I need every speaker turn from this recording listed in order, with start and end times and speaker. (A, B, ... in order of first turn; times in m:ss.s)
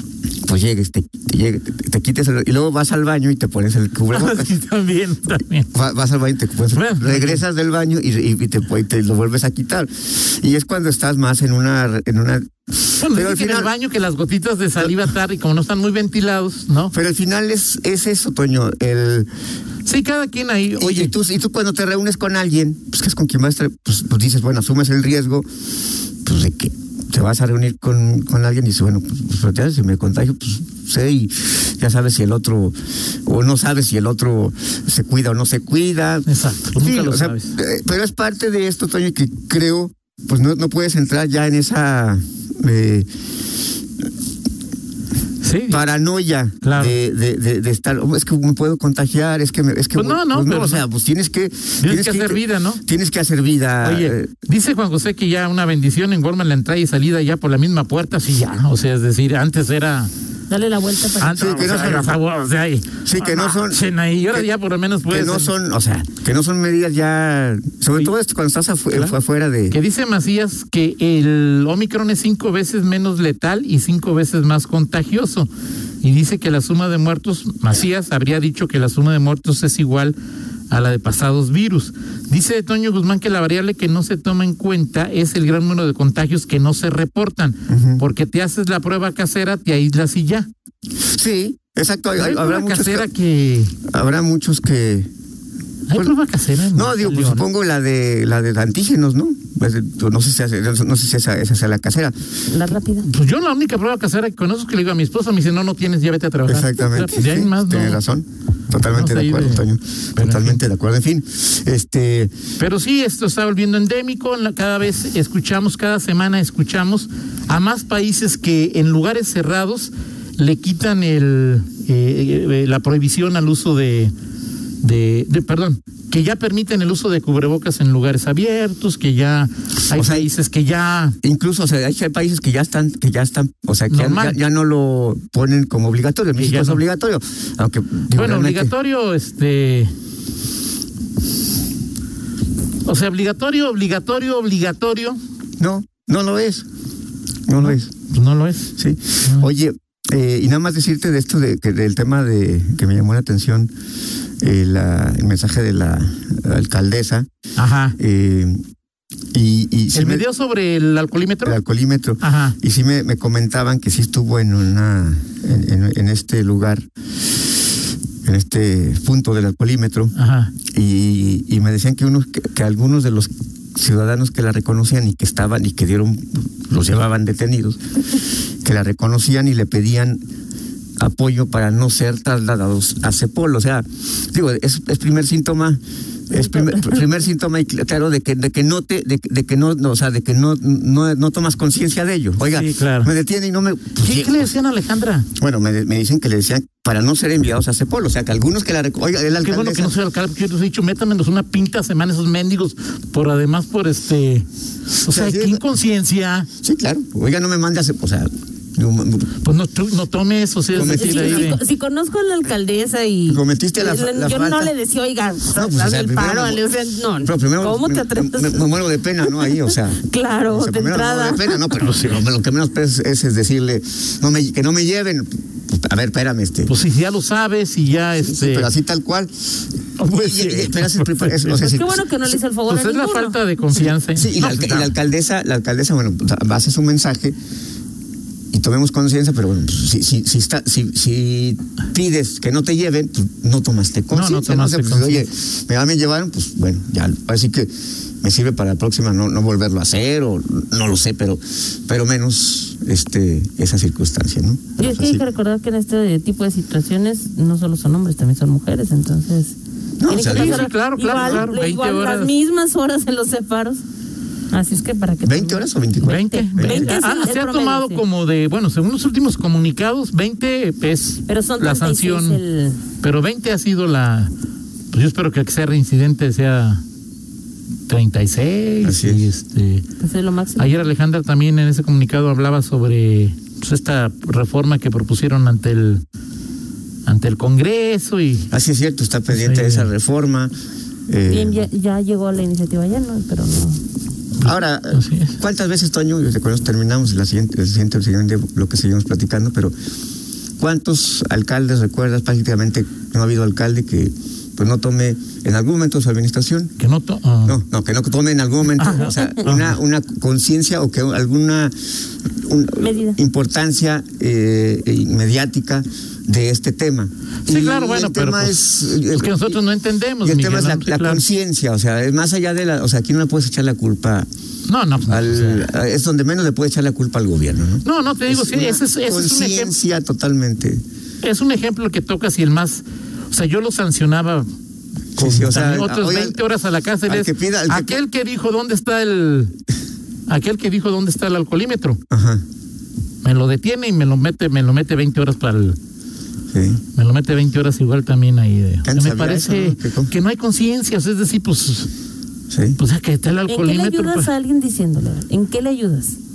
0:00.4-0:04.5 A
0:04.1-0:05.7 B
0:05.7-0:13.7 A
0:06.7-0:07.4 B
0:13.0-0:16.9 B
0:16.9-0:19.3 A
0:19.8-0:21.1 B
0:20.8-0:25.5 A
0:26.2-0:36.3 A
0:36.3-0:37.5 B
0:36.8-0:43.1 A
0:45.4-0:45.8 B
0:45.7-0:54.3 A
0:46.6-0:47.0 B
0:50.0-0:50.8 B
0:51.8-0:52.8 B
0:53.8-1:00.1 B
1:00.5-1:01.5 C
1:01.2-1:05.5 B
1:01.4-1:02.2 A
1:03.0-1:04.5 A
1:05.1-1:09.8 A
1:09.7-1:15.5 B
1:16.0-1:20.2 B
1:20.7-1:30.5 B
1:27.7-1:28.0 A
1:31.1-1:33.1 A
1:32.2-1:33.7 B
1:33.9-1:35.1 A
1:35.9-1:37.5 B
1:36.7-1:42.3 A
1:42.5-1:43.1 C
1:43.0-1:48.0 B
1:46.4-1:52.3 A
1:48.8-1:49.7 B
1:50.2-1:50.6 B
1:52.6-2:04.1 B
2:04.8-2:11.2 B
2:09.9-2:10.3 A
2:11.2-2:18.7 A
2:13.9-2:14.4 B
2:16.4-2:16.8 B
2:18.1-2:19.9 B
2:22.8-2:25.2 B
2:25.6-2:26.7 A
2:27.5-2:27.9 A
2:27.6-2:28.7 B
2:28.8-2:33.7 A
2:34.4-2:37.3 A
2:37.6-2:38.0 B
2:38.0-2:38.6 A
2:39.3-2:40.2 A
2:39.9-2:41.6 B
2:41.4-2:46.8 A
2:42.2-2:42.6 B
2:48.2-2:50.1 A
2:50.1-2:50.5 B
2:50.7-2:57.8 A
2:58.6-3:00.2 A
3:01.0-3:14.5 A
3:06.4-3:07.0 C
3:12.5-3:13.1 B
3:14.0-3:15.3 B
3:15.4-3:20.0 A
3:19.4-3:24.5 B
3:25.0-3:26.5 B
3:25.1-3:25.7 A
3:26.6-3:29.3 A
3:29.4-3:31.6 B
3:30.7-3:31.6 A
3:30.8-3:41.7 C
3:33.3-3:34.7 A
3:35.5-3:36.7 A
3:37.2-3:46.7 A
3:46.7-3:48.7 B
3:48.2-3:52.3 A
3:50.0-3:51.6 B
3:51.6-3:53.4 C
3:52.7-3:54.9 B
3:53.7-3:57.4 A
3:58.5-4:15.2 A
4:04.1-4:05.3 B
4:14.8-4:23.8 C
4:20.0-4:21.5 A
4:20.3-4:22.3 B
4:24.5-4:28.0 C
4:25.2-4:27.0 A
4:26.0-4:32.4 B
4:31.3-4:32.8 C
4:33.0-4:34.3 B
4:34.9-4:36.8 B
4:37.9-4:39.8 B
4:38.8-4:39.3 A
4:40.0-4:40.9 C
4:40.6-4:46.0 B
4:47.1-4:48.5 B
4:48.5-4:50.5 A
4:49.3-4:49.9 B
4:51.1-4:51.7 A
4:51.3-4:53.8 C
4:54.4-4:55.4 B
4:54.4-4:59.7 A
5:00.6-5:06.7 A
5:06.8-5:07.6 B
5:07.4-5:11.8 A
5:08.8-5:09.8 B
5:12.4-5:19.6 A
5:12.8-5:13.2 C
5:17.5-5:21.2 B
5:20.2-5:24.3 A
5:24.7-5:25.7 B
5:25.1-5:30.8 A
5:27.8-5:29.8 B
5:31.2-5:34.5 B
5:35.2-5:36.4 A
5:35.2-5:39.5 B
5:37.1-5:38.0 A
5:40.3-5:42.0 B
5:42.1-5:42.4 A
5:43.2-5:45.8 B
5:46.5-5:46.8 A
5:47.0-5:51.9 B
5:48.8-5:50.1 A
5:52.5-5:52.8 A
5:52.8-5:54.3 B
5:53.5-5:56.2 C